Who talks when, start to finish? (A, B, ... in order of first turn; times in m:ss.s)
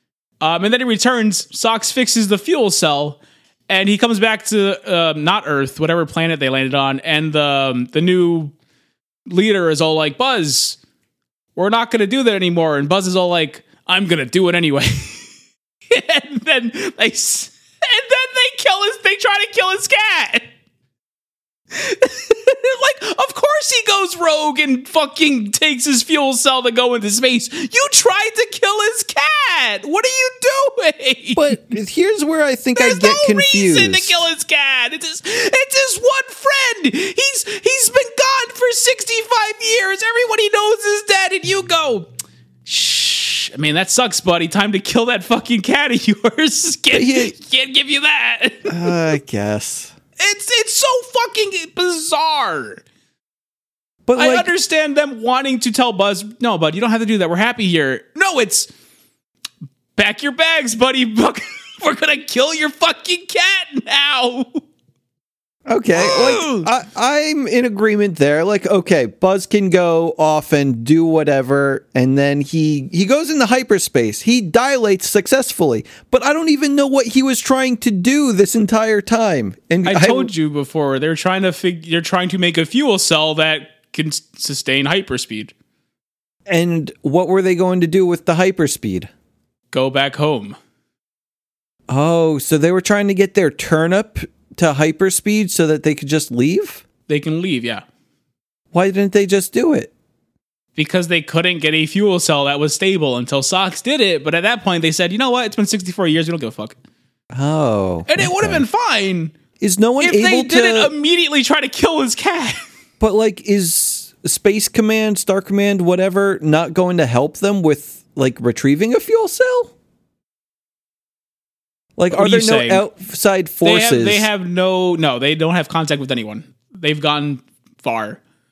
0:00.4-0:08.5 A
0:09.3-0:10.8 A
0:11.6-0:15.3 A
0:15.9-0:20.5 A
0:21.7-0:31.7 A
0:31.4-0:34.2 B
0:32.8-0:42.1 A
0:42.7-0:49.0 A
0:46.9-0:47.3 B
0:48.7-0:49.9 B
0:50.2-0:52.8 A
0:54.1-0:54.5 B
0:54.2-0:58.7 A
1:00.0-1:04.6 A
1:05.7-1:20.3 B
1:06.0-1:06.7 A
1:19.8-1:25.5 A
1:26.5-1:29.1 B
1:29.7-1:30.6 A
1:31.9-1:36.8 B
1:37.1-1:37.8 A
1:38.7-1:39.9 B
1:40.8-1:46.8 A
1:47.3-1:48.6 B
1:48.1-1:49.3 A
1:49.6-1:50.9 B
1:50.0-1:52.6 A
1:53.0-1:59.7 B
2:02.0-2:04.3 B
2:02.1-2:02.9 A
2:03.6-2:08.2 A